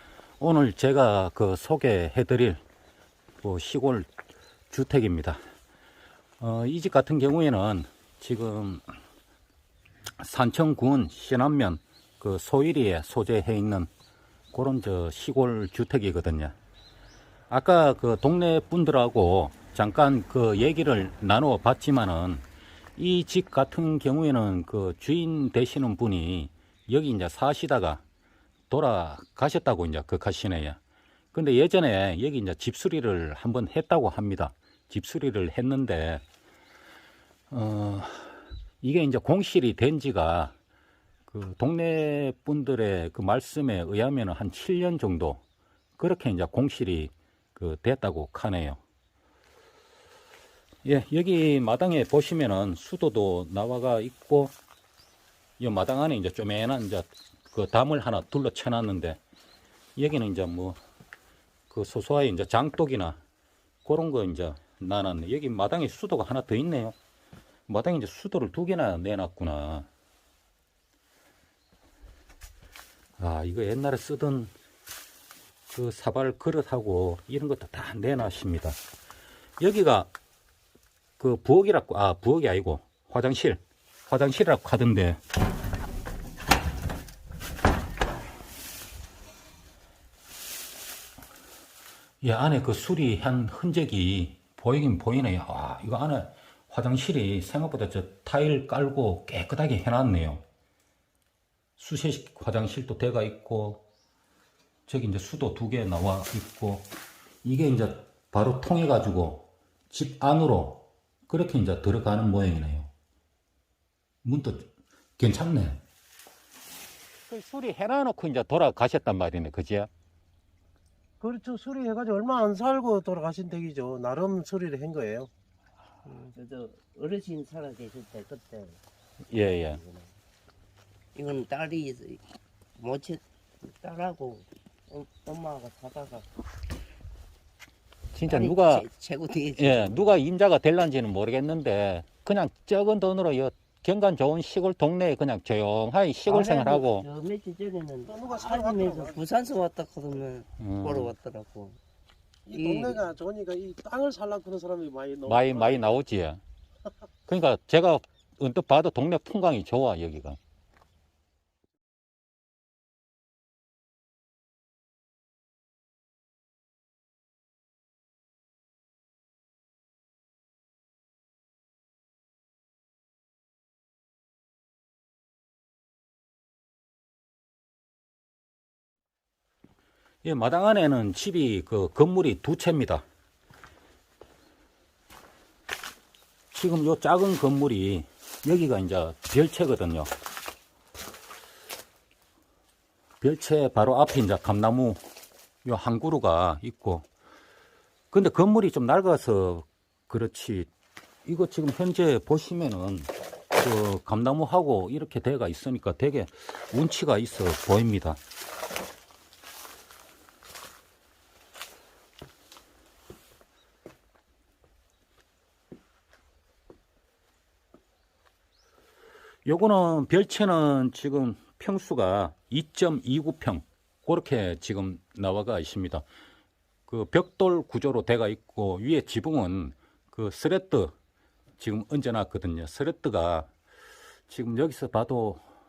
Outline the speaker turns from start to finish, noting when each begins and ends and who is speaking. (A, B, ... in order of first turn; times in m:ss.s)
0:00.4-0:02.6 A
0:03.4-0:04.1 A
0:04.7-0:05.4 A
0:06.4-0:08.8 A
0:10.2-0:13.9 A
0:14.5-0:16.5 A
0:17.5-0:22.4 A
0:23.0-0:28.0 A
0:28.7-0:30.8 A
0:31.3-0:36.2 A
0:37.5-0:40.5 A
0:41.3-0:45.4 A
0:46.0-0:48.8 A
0:50.8-0:54.5 A
0:55.6-0:59.2 A
1:00.0-1:00.8 A
1:01.7-1:03.2 A
1:03.8-1:07.0 A
1:07.7-1:09.9 A
1:13.2-1:14.5 A
1:15.7-1:18.8 A
1:19.6-1:20.1 A
1:21.2-1:25.2 A
1:32.2-1:40.4 A
1:41.8-1:43.8 A
1:44.9-1:46.9 A
1:47.4-1:52.9 A
1:54.2-1:55.8 A
1:57.3-1:59.9 A
2:01.2-2:05.3 B
2:06.0-2:08.8 C
2:09.3-2:09.8 A
2:09.7-2:10.1 C
2:11.1-2:12.2 C
2:12.8-2:16.3 C
2:18.1-2:18.9 A
2:18.2-2:20.2 C
2:19.6-2:27.1 A
2:26.3-2:31.8 C
2:28.2-2:28.8 B
2:30.6-2:31.1 A
2:32.5-2:33.1 C
2:32.6-2:35.4 B
2:35.2-2:36.4 A
2:37.3-2:40.4 A
3:00.2-3:03.0 A
3:06.5-3:10.1 A
3:13.2-3:15.0 A
3:15.6-3:17.1 A
3:18.1-3:20.7 A
3:21.2-3:28.2 A
3:39.4-3:46.0 A
3:46.9-3:50.9 A
3:51.6-3:53.5 A
3:54.3-3:55.4 A